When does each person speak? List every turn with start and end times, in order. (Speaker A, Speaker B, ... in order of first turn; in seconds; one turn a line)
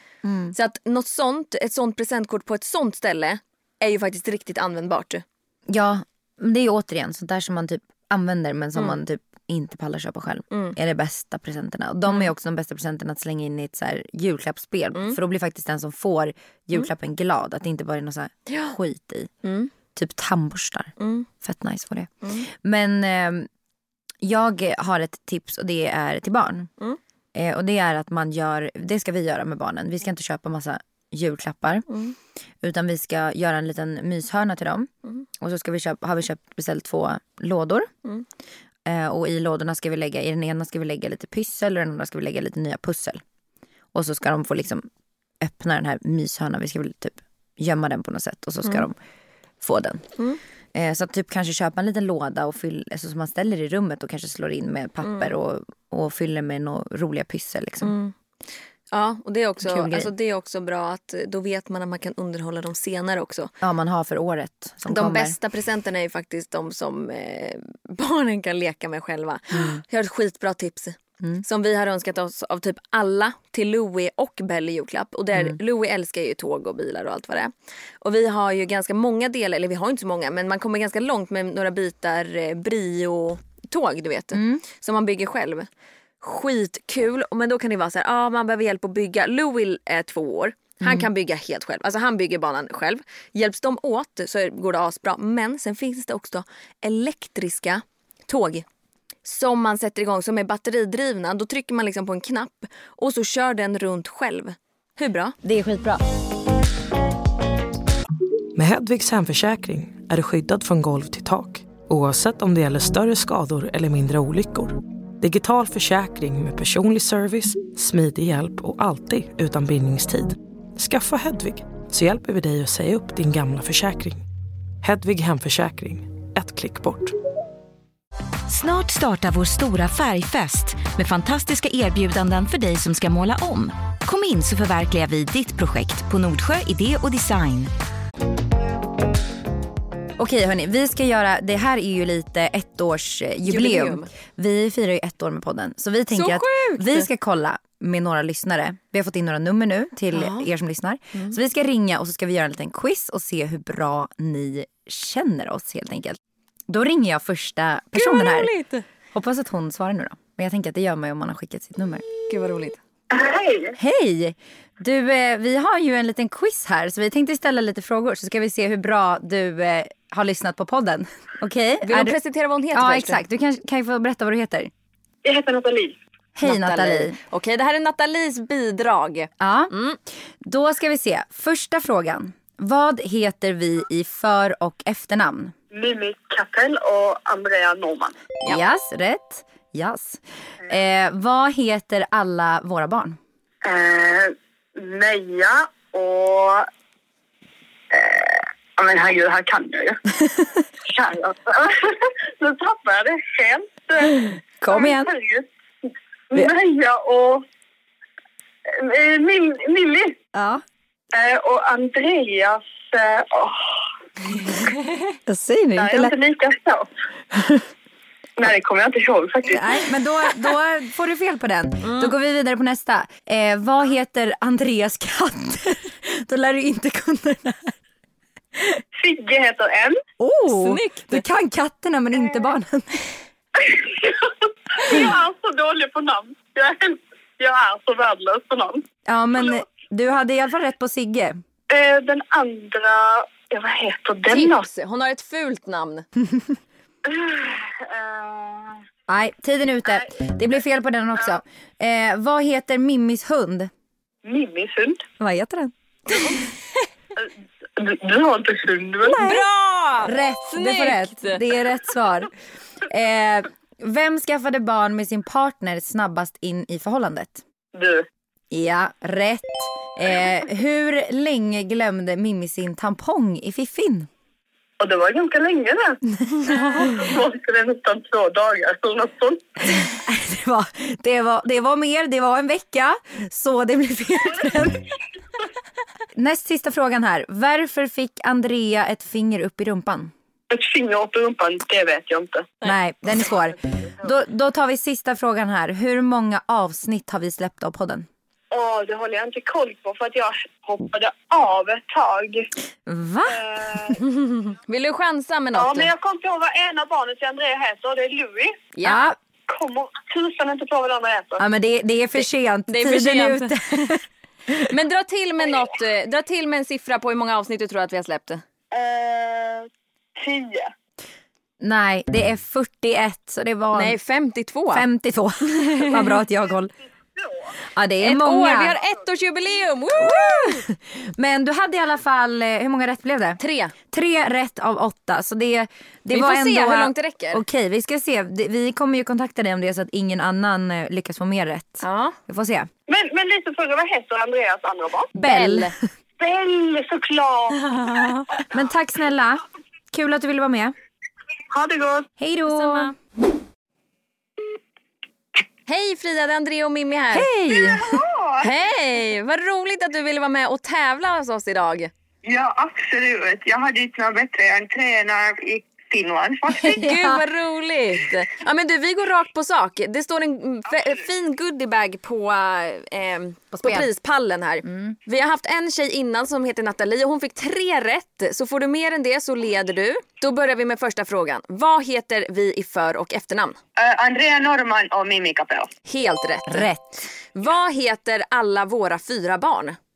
Speaker A: 0.2-0.5
Speaker B: 0.5-5.2
Speaker A: 5.7-19.3
Speaker B: 10.5-10.8
Speaker B: 18.5-18.8
Speaker B: 19.4-19.7
Speaker A: 19.9-23.5
Speaker B: 21.0-21.3
Speaker A: 24.2-26.7
Speaker A: 27.3-31.9
Speaker B: 31.9-32.1
Speaker A: 32.6-37.9
Speaker A: 38.9-43.2
Speaker A: 43.9-44.9
Speaker A: 45.4-49.0
Speaker A: 49.6-50.1
Speaker A: 50.7-57.9
Speaker B: 55.0-55.3
Speaker B: 57.8-58.1
Speaker B: 58.9-63.5
Speaker A: 59.6-60.1
Speaker A: 63.6-65.3
Speaker B: 64.9-85.7
Speaker A: 69.5-69.8
Speaker A: 84.3-84.6
Speaker B: 86.2-98.6
Speaker A: 90.8-91.1
Speaker B: 99.2-105.3
Speaker A: 105.4-106.0
Speaker C: 108.5-124.2
Speaker C: 124.8-127.1
Speaker D: 128.5-137.7
Speaker A: 140.2-158.5
Speaker B: 143.4-144.1
Speaker B: 146.1-147.1
Speaker B: 150.1-150.5
Speaker B: 157.9-158.8
Speaker A: 159.1-162.0
Speaker B: 162.3-162.8
Speaker E: 163.1-163.7
Speaker A: 163.8-172.2
Speaker B: 171.8-173.2
Speaker A: 172.7-174.7
Speaker E: 175.2-175.9
Speaker A: 176.3-177.2
Speaker B: 176.4-180.0
Speaker A: 179.4-179.7
Speaker A: 180.4-185.5
Speaker E: 185.7-188.1
Speaker A: 188.4-193.2
Speaker E: 193.6-196.6
Speaker E: 197.9-200.0
Speaker E: 200.9-201.7
Speaker E: 202.4-205.4
Speaker A: 204.6-205.1
Speaker E: 206.3-207.4
Speaker E: 208.8-210.1
Speaker A: 210.3-210.6
Speaker E: 211.1-213.6
Speaker A: 215.2-216.1
Speaker E: 215.8-216.9
Speaker A: 217.3-217.6
Speaker E: 218.4-219.6
Speaker A: 219.5-227.7
Speaker B: 221.8-222.1
Speaker E: 229.0-229.9
Speaker A: 230.2-233.1
Speaker B: 230.5-231.2
Speaker E: 233.6-234.3
Speaker E: 234.8-238.8
Speaker A: 239.1-241.4
Speaker E: 241.7-244.6
Speaker B: 244.3-246.1
Speaker E: 247.1-248.8
Speaker A: 249.1-253.7
Speaker E: 254.2-255.0
Speaker A: 255.2-255.7
Speaker B: 256.1-256.4
Speaker E: 257.2-259.2
Speaker A: 259.0-259.4
Speaker B: 259.2-261.4
Speaker A: 260.0-262.3
Speaker A: 262.8-267.4
Speaker E: 267.7-268.0
Speaker A: 268.5-274.1
Speaker E: 274.8-275.9
Speaker A: 276.2-277.1
Speaker E: 276.5-279.4
Speaker A: 279.7-284.9
Speaker A: 286.1-290.1
Speaker E: 290.5-292.4
Speaker A: 292.6-298.1
Speaker E: 298.5-302.3
Speaker A: 302.9-303.9
Speaker B: 304.0-305.9
Speaker E: 305.6-308.5
Speaker B: 308.7-309.0
Speaker A: 308.8-309.2
Speaker E: 309.5-311.4
Speaker A: 311.4-314.7
Speaker B: 312.2-313.6
Speaker B: 314.7-318.4
Speaker E: 318.7-320.7
Speaker A: 321.6-324.0
Speaker B: 323.7-324.9
Speaker A: 324.7-326.7
Speaker B: 325.6-326.2
Speaker E: 327.1-327.4
Speaker A: 327.6-328.8
Speaker B: 328.0-330.6
Speaker A: 329.9-342.7
Speaker B: 333.4-333.7
Speaker B: 336.1-337.4
Speaker B: 341.8-342.2
Speaker E: 342.9-345.0
Speaker A: 345.1-345.7
Speaker B: 345.1-345.7
Speaker E: 346.2-347.5
Speaker B: 347.7-348.2
Speaker A: 348.4-350.7
Speaker E: 351.5-352.0
Speaker A: 352.2-352.9
Speaker B: 352.5-352.9
Speaker B: 355.7-357.3
Speaker A: 357.1-358.0
Speaker E: 357.5-358.5
Speaker B: 358.4-361.9
Speaker E: 362.2-366.9
Speaker B: 366.6-383.6
Speaker A: 366.6-367.2
Speaker A: 373.5-373.9
Speaker A: 374.6-375.0
Speaker E: 383.8-385.7
Speaker B: 385.9-386.7
Speaker A: 386.5-386.8
Speaker B: 387.3-389.8